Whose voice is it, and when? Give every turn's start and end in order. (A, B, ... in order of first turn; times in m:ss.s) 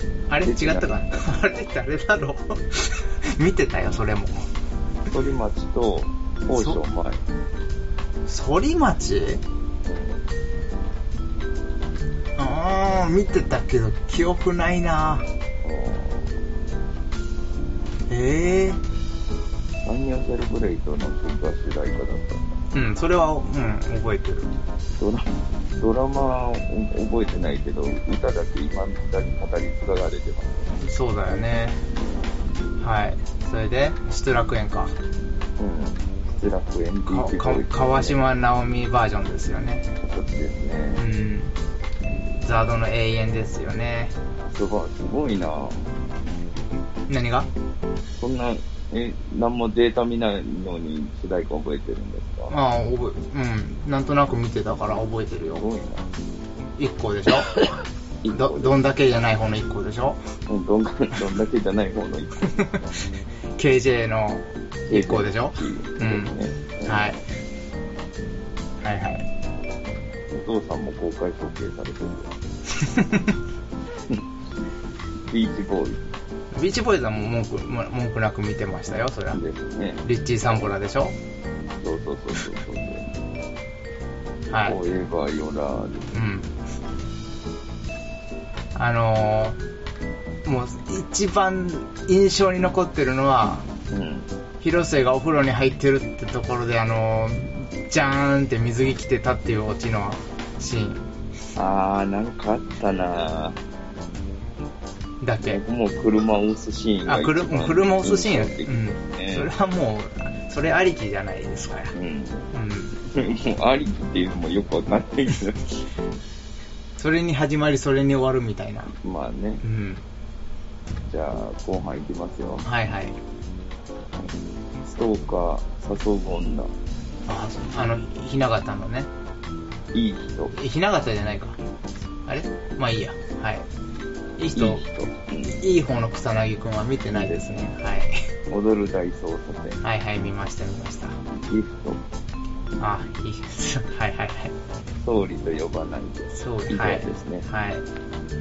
0:00.3-0:04.3 A
0:00.4-0:01.2 B
0:05.1-0:07.2 B
0:06.5-0:06.8 A
0:08.3-0:09.4 A
0:09.8-0:10.2 B
0:12.4-0:15.3 A
0:15.6-0:16.3 B
0:18.1-0:18.8 A
0:19.8-0:22.6 B
0:22.7-0:24.5 A
0:24.9-0:30.7 B
0:30.8-0:31.8 A
0:31.9-0:32.5 B
0:32.8-0:35.0 A
0:35.6-0:38.2 B
0:37.0-0:39.9 A
0:40.0-0:41.0 B
0:41.0-0:41.5 A
0:42.2-0:44.1 A
0:44.5-0:45.9 B
0:47.1-0:47.5 A
0:48.2-0:52.5 B
0:52.5-0:55.6 A
0:55.5-0:56.1 B
0:56.8-0:57.6 A
0:58.2-0:58.8 B
0:58.3-1:00.2 A
1:00.5-1:02.7 B
1:02.4-1:06.3 A
1:04.9-1:07.2 B
1:06.8-1:07.2 A
1:08.8-1:09.2 A
1:09.9-1:12.3 B
1:12.7-1:13.3 A
1:15.3-1:16.0 B
1:16.5-1:19.4 A
1:19.3-1:20.7 B
1:20.0-1:21.2 A
1:21.8-1:23.1 B
1:24.5-1:24.8 A
1:24.6-1:26.1 B
1:26.1-1:26.5 A
1:28.7-1:29.6 A
1:30.4-1:33.7 A
1:33.9-1:34.3 B
1:34.6-1:41.0 A
1:41.5-1:43.6 B
1:45.2-1:45.6 A
1:45.4-1:49.5 B
1:47.0-1:52.0 A
1:51.9-1:55.8 B
1:52.5-1:53.0 A
1:57.0-1:58.9 A
1:58.9-1:59.6 B
1:59.6-2:00.0 A
2:01.1-2:02.6 B
2:02.6-2:03.2 A
2:04.8-2:06.7 B
2:07.3-2:09.1 A
2:09.9-2:10.5 B
2:10.5-2:11.6 A
2:12.2-2:13.6 A
2:14.4-2:14.8 A
2:14.5-2:15.6 B
2:15.4-2:18.2 A
2:17.1-2:17.7 B
2:18.5-2:19.8 B
2:19.8-2:21.2 A
2:21.3-2:22.0 B
2:22.8-2:24.5 A
2:25.0-2:27.4 B
2:26.3-2:27.8 A